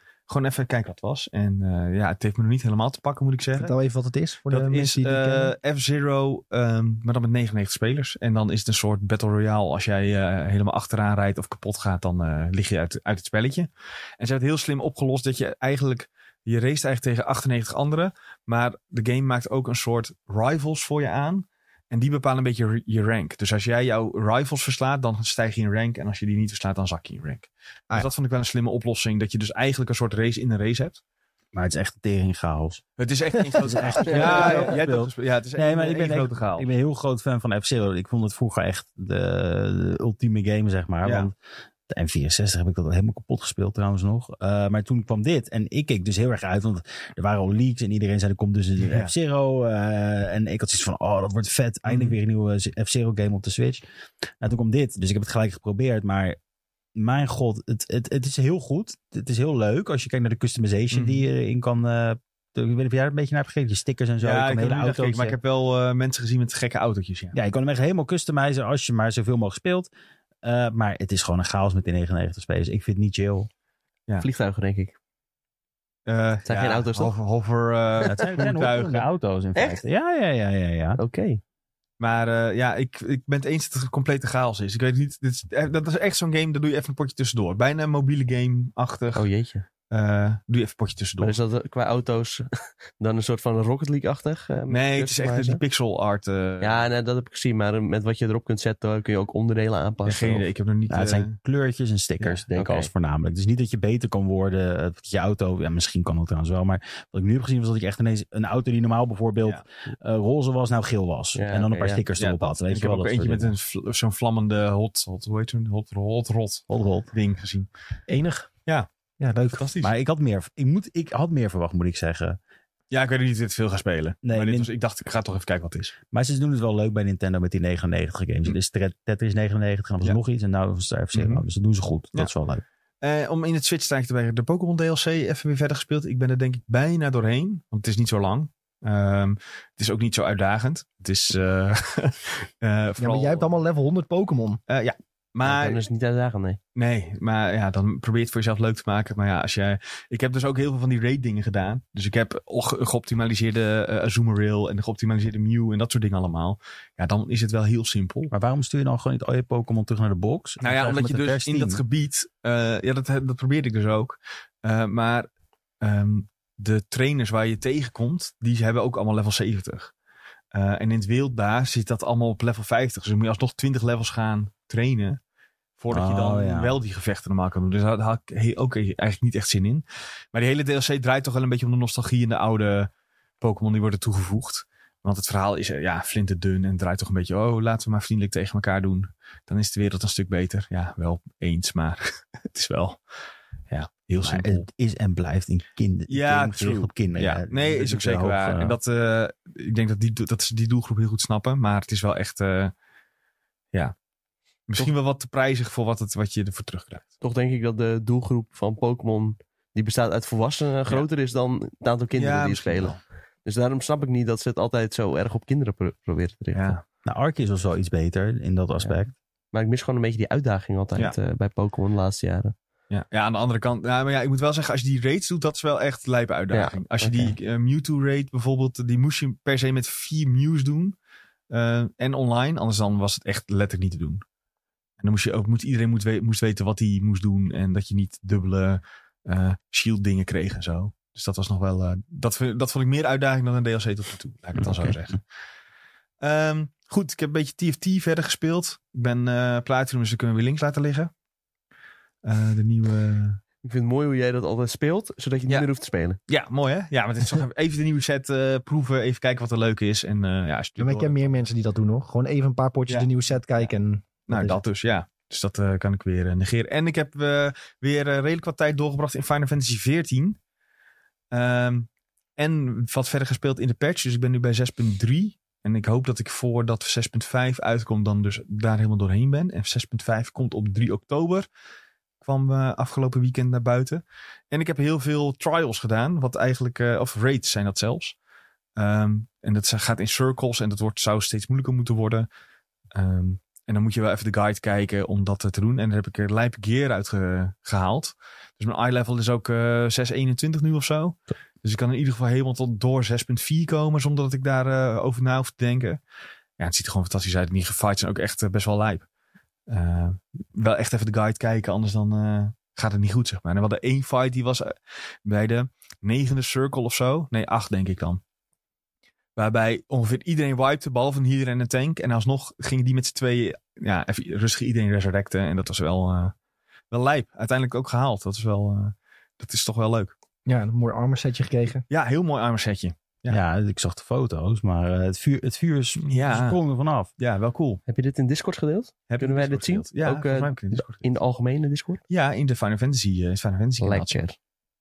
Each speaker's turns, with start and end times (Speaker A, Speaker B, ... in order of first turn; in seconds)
Speaker A: 0.3-3.7, 4.5-31.0, 33.0-36.7, 41.0-41.3, 48.8-49.1, 51.9-52.2, 60.9-61.2, 64.2-67.4, 76.1-79.1, 82.0-89.3, 89.9-91.4, 94.7-96.9, 100.1-101.3, 112.2-117.7, 119.5-119.9, 122.9-125.9, 131.1-131.4, 133.0-143.4, 144.7-145.8, 146.8-158.3, 160.6-165.3, 165.8-169.9, 170.5-175.2, 175.8-182.9, 183.4-193.0, 193.7-194.7, 196.1-202.7, 204.7-207.1, 212.2-213.0, 216.5-216.8, 222.9-231.0, 231.5-234.2, 235.0-245.2, 246.2-251.1, 252.2-253.4, 256.3-261.4, 264.3-270.4, 271.3-281.5, 282.2-288.2, 288.8-292.3, 292.9-306.0, 306.6-309.1, 309.7-318.2, 319.4-326.3, 326.9-330.1, 331.9-333.4, 336.1-336.6, 337.2-337.8, 339.1-341.1, 342.1-344.2
Speaker B: 3.6-5.5, 118.1-118.5, 119.2-119.7, 143.0-144.6, 260.8-264.6, 330.5-331.9
Speaker C: 31.5-32.8, 33.6-41.4, 41.9-53.8, 54.4-56.4, 57.0-65.4, 67.3-69.9, 70.4-73.5, 78.0-81.0, 100.9-113.5, 116.7-117.1, 119.8-122.4, 124.2-124.7, 126.1-132.6, 158.3-161.8, 175.9-176.8, 194.2-198.8, 217.1-219.1, 333.3-337.1
Speaker D: 34.2-34.6, 74.2-74.9, 76.5-77.1, 79.6-79.8, 81.0-81.4, 89.1-89.7, 91.2-95.6, 96.6-100.5, 102.2-102.9, 111.3-112.0, 145.4-146.6, 207.2-216.8, 219.5-222.5, 226.5-227.4, 253.6-256.2, 337.9-342.0, 343.8-344.4